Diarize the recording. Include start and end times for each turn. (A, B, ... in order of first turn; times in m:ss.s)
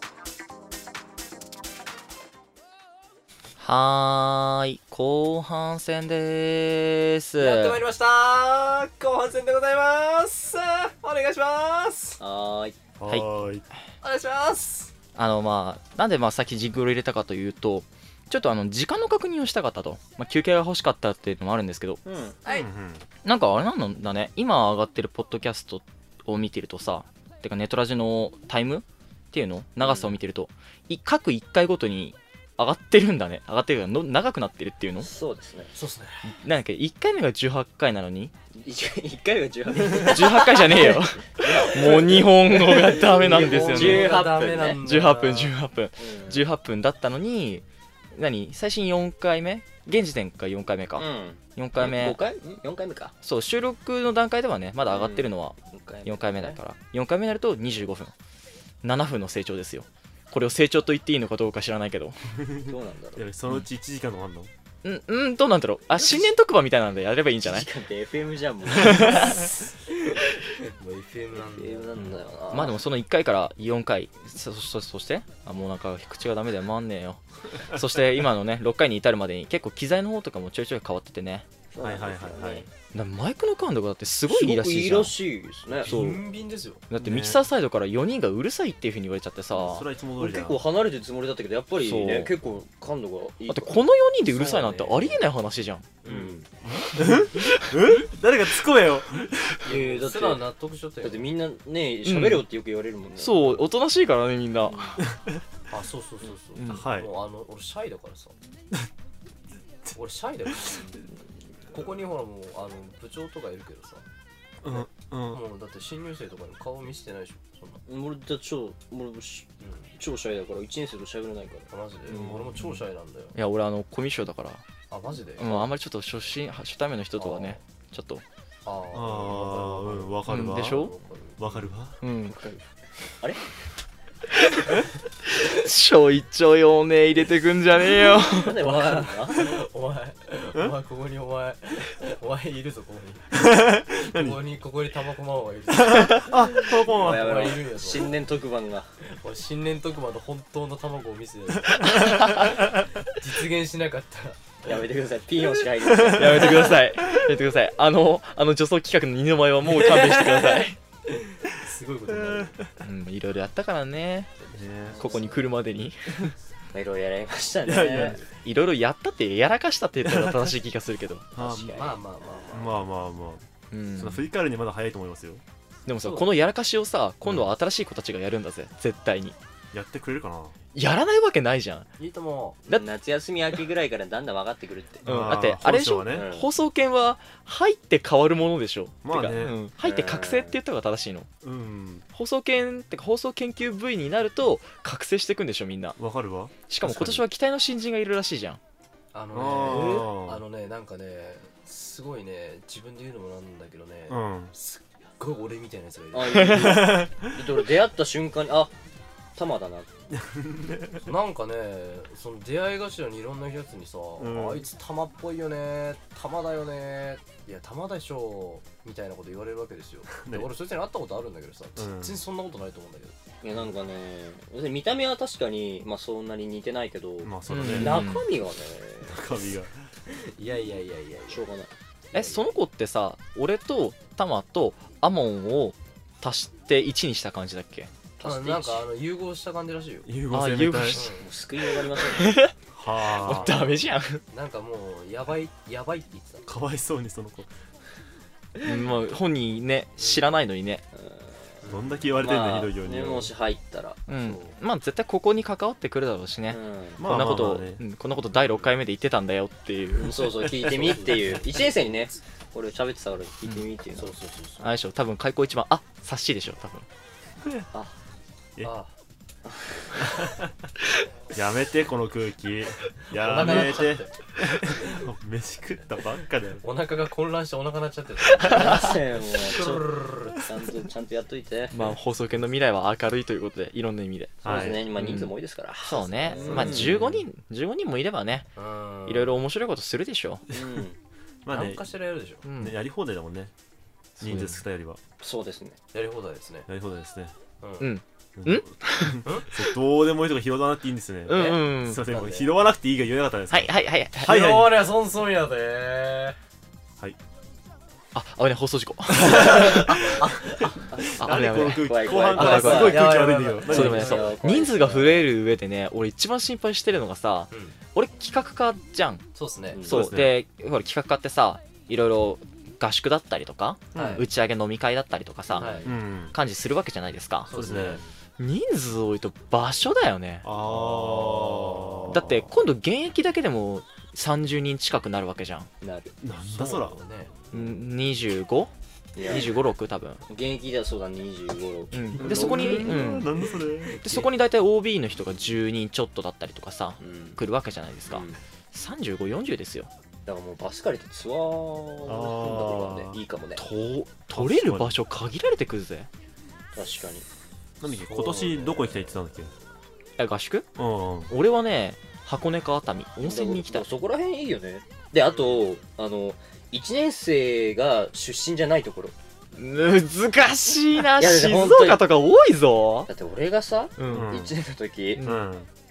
0:03.6-0:07.8 A
0:07.4-0:12.2 B
0:12.2-0:12.8 C
0:13.0-0:13.6 D
0:14.0-0:14.9 B
0:15.2-0:22.0 A
0:22.0-0:22.4 C
0:22.5-0:23.0 D
0:23.2-0:35.1 A
0:29.8-0:30.2 C
0:35.0-0:35.7 C
0:35.7-0:36.3 B
0:36.3-0:38.3 A
0:38.5-0:44.8 C
0:39.9-0:44.2 A
0:42.8-0:45.6 B
0:44.8-0:52.2 A
0:46.0-0:46.4 C
0:51.0-0:53.2 C
0:53.2-0:58.1 A
0:54.9-0:56.6 C
0:58.8-1:02.2 A
1:02.4-1:04.5 D
1:02.6-1:03.2 C
1:04.8-1:07.7 A
1:07.4-1:09.5 C
1:08.8-1:09.4 A
1:10.1-1:12.2 B
1:11.3-1:12.8 C
1:12.0-1:21.5 A
1:21.7-1:22.7 C
1:21.8-1:22.7 D
1:22.9-1:25.2 A
1:24.3-1:26.1 C
1:25.8-1:26.8 B
1:25.9-1:26.2 A
1:26.9-1:29.9 A
1:27.0-1:27.4 D
1:29.5-1:33.8 C
1:29.6-1:30.6 D
1:31.8-1:32.3 A
1:33.5-1:35.9 A
1:34.4-1:35.2 C
1:34.5-1:34.8 B
1:36.0-1:36.4 B
1:36.0-1:36.5 C
1:36.6-1:39.7 D
1:37.4-1:37.7 A
1:39.6-1:40.4 C
1:39.7-1:41.3 B
1:41.0-1:43.7 C
1:42.0-1:42.4 A
1:43.2-1:45.0 A
1:44.7-1:45.0 C
1:45.1-1:45.4 D
1:45.7-1:48.3 B
1:46.6-1:46.8 A
1:46.7-1:47.1 D
1:50.0-1:51.0 B
1:50.5-1:50.8 D
1:51.7-1:54.0 B
1:54.6-1:55.4 D
1:54.7-1:57.8 B
1:57.9-2:02.4 C
1:59.6-1:59.9 B
2:01.7-2:03.3 B
2:02.1-2:02.6 D
2:03.4-2:04.6 A
2:04.9-2:05.7 B
2:05.4-2:08.2 A
2:07.2-2:07.6 C
2:08.6-2:11.8 B
2:08.9-2:12.0 D
2:10.3-2:11.0 A
2:12.0-2:12.4 A
2:12.3-2:13.4 C
2:15.3-2:18.9 A
2:18.2-2:19.6 C
2:18.7-2:23.4 B
2:23.3-2:24.4 D
2:24.0-2:28.2 B
2:25.7-2:27.6 D
2:25.9-2:26.2 A
2:26.9-2:28.9 C
2:29.0-2:34.8 B
2:31.8-2:32.5 A
2:32.0-2:32.2 D
2:34.7-2:36.8 C
2:35.8-2:37.3 D
2:36.1-2:40.8 A
2:39.7-2:42.6 B
2:42.1-2:42.7 D
2:42.8-2:44.3 A
2:44.4-2:45.5 C
2:44.5-2:45.2 D
2:45.0-2:46.4 A
2:46.7-2:48.2 C
2:47.6-2:48.2 D
2:48.4-2:51.3 A
2:50.1-2:50.5 D
2:51.4-2:51.9 D
2:51.4-2:52.6 C
2:51.5-2:52.8 B
2:52.5-2:55.4 D
2:53.7-2:54.2 A
2:55.9-2:59.4 A
2:56.0-2:56.3 B
2:59.7-3:00.5 D
3:00.7-3:01.9 A
3:02.0-3:02.6 B
3:02.7-3:05.4 C
3:05.0-3:06.3 D
3:05.0-3:11.3 A
3:06.1-3:06.5 C
3:09.0-3:09.6 D
3:09.8-3:10.6 C
3:11.4-3:12.0 D
3:12.1-3:16.0 A
3:16.0-3:17.2 D
3:16.7-3:18.6 A
3:19.1-3:26.8 B
3:19.3-3:20.4 D
3:24.1-3:24.5 D
3:26.1-3:28.7 C
3:26.3-3:27.0 A
3:26.7-3:27.4 D
3:29.4-3:29.9 C
3:30.1-3:31.1 D
3:31.0-3:43.1 B
3:34.2-3:34.6 D
3:40.2-3:40.5 D
3:41.8-3:42.2 D
3:43.4-3:49.5 C
3:47.2-3:48.1 D
3:47.5-3:48.3 A
3:49.1-3:49.8 D
3:50.1-3:51.5 B
3:51.3-3:52.5 C
3:52.1-3:57.9 A
3:58.2-3:58.9 C
3:58.2-4:00.1 B
4:00.1-4:01.0 D
4:00.3-4:01.1 A
4:00.9-4:01.3 B
4:01.2-4:02.4 C
4:01.6-4:04.2 A
4:02.7-4:03.6 D
4:03.2-4:03.8 B
4:04.3-4:06.5 B
4:06.5-4:07.5 D
4:08.6-4:10.8 A
4:10.9-4:11.6 C
4:11.6-4:12.1 B
4:11.7-4:13.3 D
4:12.2-4:14.0 C
4:14.1-4:20.3 A
4:14.1-4:14.6 B
4:16.5-4:17.0 C
4:17.0-4:17.8 D
4:20.0-4:24.1 C
4:20.4-4:22.2 B
4:24.0-4:24.6 B
4:24.6-4:26.9 A
4:28.6-4:28.9 B
4:29.5-4:29.8 C
4:30.0-4:30.5 D
4:31.3-4:36.6 D
4:33.1-4:34.1 B
4:36.6-4:40.4 B
4:38.4-4:41.8 C
4:41.7-4:48.5 A
4:44.4-4:44.9 D
4:44.4-4:47.2 C
4:46.3-4:47.0 B
4:46.5-4:47.1 D
4:48.6-4:49.4 B
4:49.1-4:50.4 A
4:50.5-4:51.0 C
4:51.4-4:51.9 D
4:51.5-4:52.4 B
4:52.4-4:52.8 A
4:52.6-4:53.5 D
4:54.2-4:55.0 D
4:54.2-4:54.6 A
4:55.2-4:55.8 C
4:55.9-4:56.7 B
4:56.7-4:57.3 D
4:57.6-4:57.9 B
4:57.8-4:59.2 A
4:58.4-5:04.8 D
5:01.3-5:02.0 A
5:01.3-5:02.5 B
5:03.5-5:04.5 A
5:04.2-5:06.4 B
5:08.1-5:10.2 A
5:09.1-5:14.2 D
5:09.2-5:10.7 B
5:11.2-5:19.2 A
5:11.7-5:15.3 C
5:12.3-5:14.4 B
5:17.5-5:17.8 B
5:19.4-5:19.8 B
5:19.7-5:20.0 C
5:19.8-5:25.8 A
5:19.9-5:20.3 D
5:23.9-5:24.2 D
5:24.0-5:24.2 B
5:25.5-5:26.0 C
5:25.6-5:25.9 B
5:25.9-5:26.4 D
5:26.3-5:27.5 A
5:27.5-5:28.0 B
5:27.5-5:28.0 D
5:27.5-5:28.1 C
5:28.4-5:30.5 A
5:30.4-5:32.5 D
5:30.7-5:32.1 B
5:32.1-5:35.7 A
5:35.8-5:36.2 C
5:36.2-5:37.0 D
5:36.5-5:37.3 B
5:37.5-5:38.7 A
5:39.2-5:39.6 C
5:39.3-5:40.2 A
5:40.3-5:43.1 C
5:41.9-5:43.3 A
5:42.2-5:44.0 D
5:43.8-5:44.2 B
5:44.0-5:49.9 A
5:47.0-5:47.4 C
5:48.1-5:48.4 C
5:50.2-5:53.6 C
5:52.1-5:53.2 D
5:53.6-5:56.1 A
5:54.3-5:55.0 D
5:56.7-5:57.2 C
5:57.8-5:59.5 D
5:57.9-5:58.9 B
6:00.2-6:00.7 A
6:00.8-6:01.3 D
6:01.3-6:03.9 A
6:03.2-6:09.2 C
6:05.2-6:05.8 B
6:09.6-6:13.1 A
6:11.2-6:12.0 C
6:13.1-6:15.2 C
6:14.0-6:14.4 A
6:14.1-6:14.5 D
6:15.2-6:15.5 A
6:15.2-6:15.7 D